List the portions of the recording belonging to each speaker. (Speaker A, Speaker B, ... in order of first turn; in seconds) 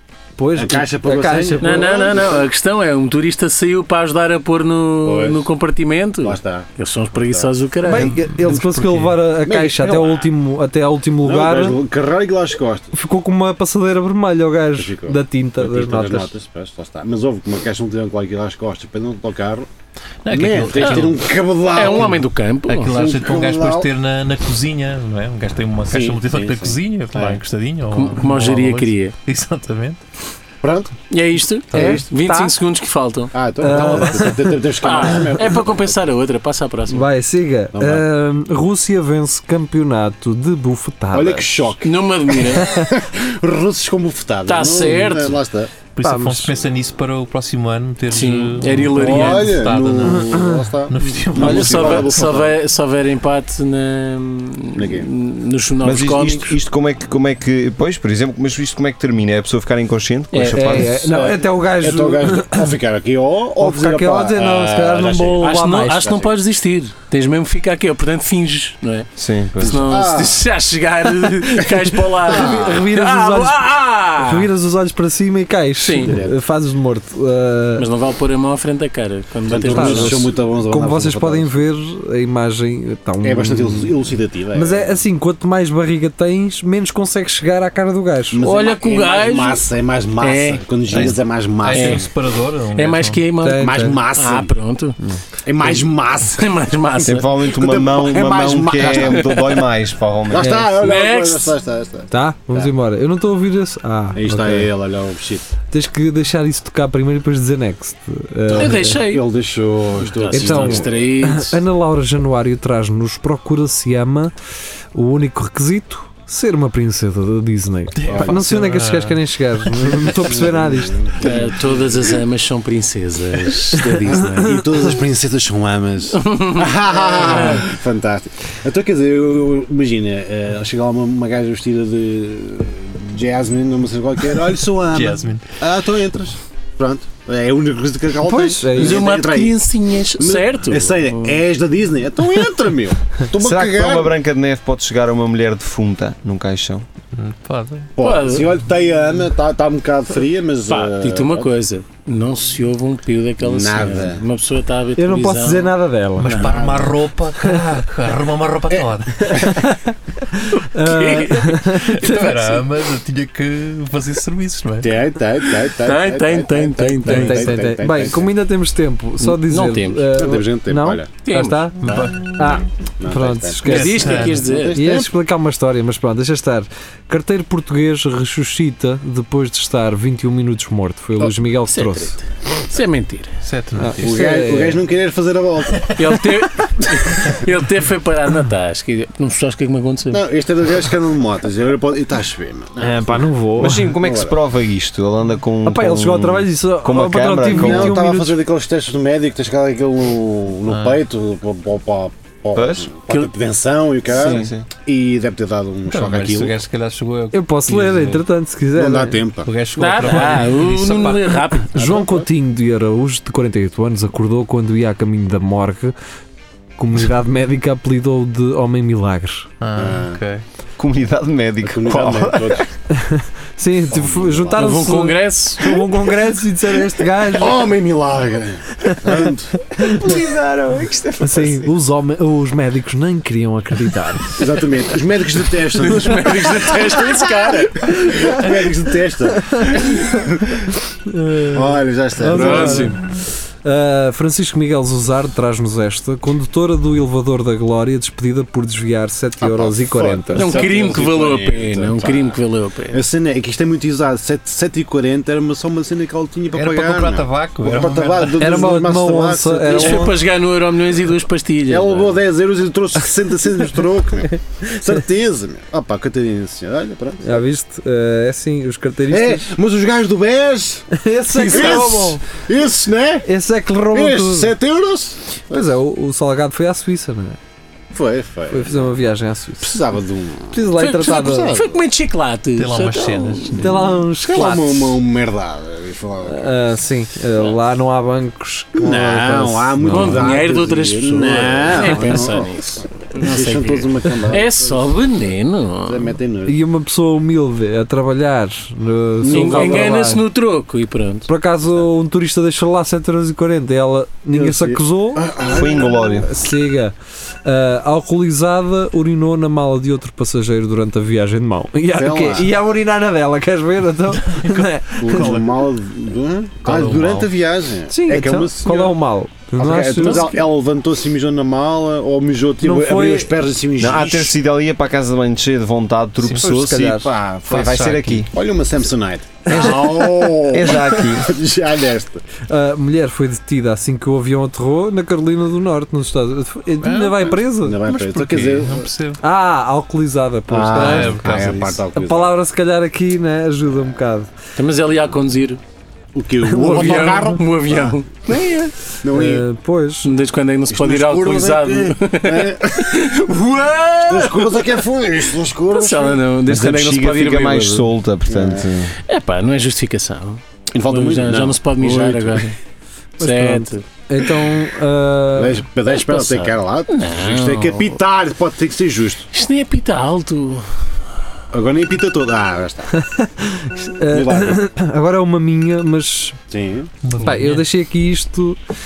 Speaker A: 0.4-2.0, 7.8-11.8, 12.9-16.3, 31.7-32.5, 33.6-34.5, 36.9-41.7, 46.0-46.5, 50.0-50.7, 60.5-62.7, 63.6-66.1, 72.3-77.9, 79.7-83.9, 84.5-88.4, 93.4-94.0, 100.4-100.7, 102.1-104.7, 105.7-109.0, 110.3-114.3, 114.9-121.0, 138.2-139.1, 155.0-156.5, 159.3-162.6, 167.1-182.2, 183.8-184.8, 192.8-193.9, 195.6-198.4, 204.2-204.5, 207.3-209.2, 211.6-215.9, 216.8-219.5, 222.9-227.7, 228.8-229.2, 229.7-230.2, 231.2-234.5, 238.0-238.3, 239.5-240.1, 241.1-243.1, 243.6-250.6, 258.4-260.1, 267.2-269.5, 270.9-272.2, 273.2-274.5, 275.5-277.4, 278.5-279.8, 280.5-281.6, 283.6-285.0, 286.3-290.3, 296.5-300.2, 301.3-305.3, 305.9-315.4, 317.9-320.3, 322.6-323.4, 326.3-327.1, 329.5-330.3, 332.5-337.8, 339.2-341.2, 341.9-344.3, 346.4-347.4, 349.1-350.1, 363.2-365.6, 372.9-376.4, 377.2-378.6
Speaker B: 0.6-2.4, 5.0-5.5, 6.2-7.5, 9.4-10.3, 11.2-12.9, 14.8-19.7, 20.3-22.2, 22.9-23.9, 25.9-27.4, 30.6-30.9, 31.7-32.0, 33.3-35.9, 37.7-38.0, 41.1-45.7, 49.0-52.6, 54.8-55.1, 61.0-66.3, 69.6-70.5, 72.3-72.7, 76.0-76.4, 79.5-81.6, 83.2-84.9, 88.3-92.0, 93.6-94.5, 95.5-96.5, 97.5-99.6, 100.3-102.7, 104.2-105.5, 108.5-111.1, 118.1-118.5, 120.2-122.0, 124.1-139.6, 140.2-144.2, 148.0-151.5, 153.4-154.2, 156.4-157.0, 164.8-168.3, 170.2-171.1, 173.0-175.1, 184.0-186.3, 190.1-193.3, 193.8-194.4, 197.4-206.6, 208.8-209.5, 211.8-212.3, 219.8-220.2, 221.6-222.7, 223.9-224.9, 227.3-229.7, 234.4-240.6, 241.5-242.9, 249.4-252.4, 252.9-260.1, 261.7-267.4, 269.1-273.3, 273.9-275.7, 277.9-278.9, 279.6-281.8, 284.3-286.5, 288.8-294.9, 295.9-296.6, 299.2-299.9, 304.3-306.2, 311.9-312.5, 315.0-319.0, 319.6-324.3, 328.3-332.2, 337.6-338.9, 340.5-342.4, 346.1-348.0, 349.0-349.5, 350.7-353.0, 354.1-356.2, 358.3-358.7, 360.7-362.5, 365.4-369.3, 371.5-372.9, 374.1-374.6, 376.5-376.9
Speaker C: 1.6-8.2, 20.8-21.1, 21.7-22.9, 27.9-29.1, 31.1-33.8, 34.8-37.1, 41.8-42.7, 44.5-45.4, 48.1-49.6, 51.3-56.6, 60.3-60.8, 65.4-74.5, 75.8-76.2, 77.8-80.3, 88.4-89.6, 90.2-91.1, 91.7-92.1, 92.8-95.0, 96.4-97.4, 100.7-101.5, 108.5-109.2, 110.0-111.6, 121.2-124.8, 126.2-127.7, 138.8-141.4, 148.0-148.5, 150.7-156.5, 160.8-161.6, 165.8-167.6, 169.2-170.1, 171.2-172.0, 173.7-175.0, 182.7-183.3, 186.0-190.2, 209.8-211.8, 224.5-225.7, 235.8-237.8, 242.3-243.0, 250.3-253.0, 259.7-262.2, 280.8-283.7, 289.9-296.1, 299.3-301.3, 320.0-320.4, 344.6-345.6, 346.6-348.7, 350.0-354.8, 355.7-357.9, 359.1-362.6, 363.2-363.8, 366.1-367.9, 369.3-370.7
Speaker D: 8.3-9.2, 20.2-21.3, 22.7-30.0, 46.0-52.1, 90.9-93.2, 118.0-120.0, 134.9-135.5, 147.1-147.9, 156.2-159.5, 161.7-164.9, 171.8-172.3, 173.6-174.5, 183.4-184.2, 200.7-201.0, 205.9-208.2, 209.4-211.4, 219.6-220.4, 256.5-258.6, 282.6-283.9, 314.2-315.6, 316.6-317.3, 326.2-326.5, 327.4-328.3, 336.8-339.2, 340.7-341.8, 377.0-377.7
Speaker E: 55.8-61.2, 69.2-69.9, 97.0-100.6, 143.4-146.9, 193.6-198.0, 202.5-202.9, 204.1-204.7, 220.8-222.7, 229.8-231.8, 305.5-306.3, 323.8-328.3, 329.5-331.3, 356.5-359.0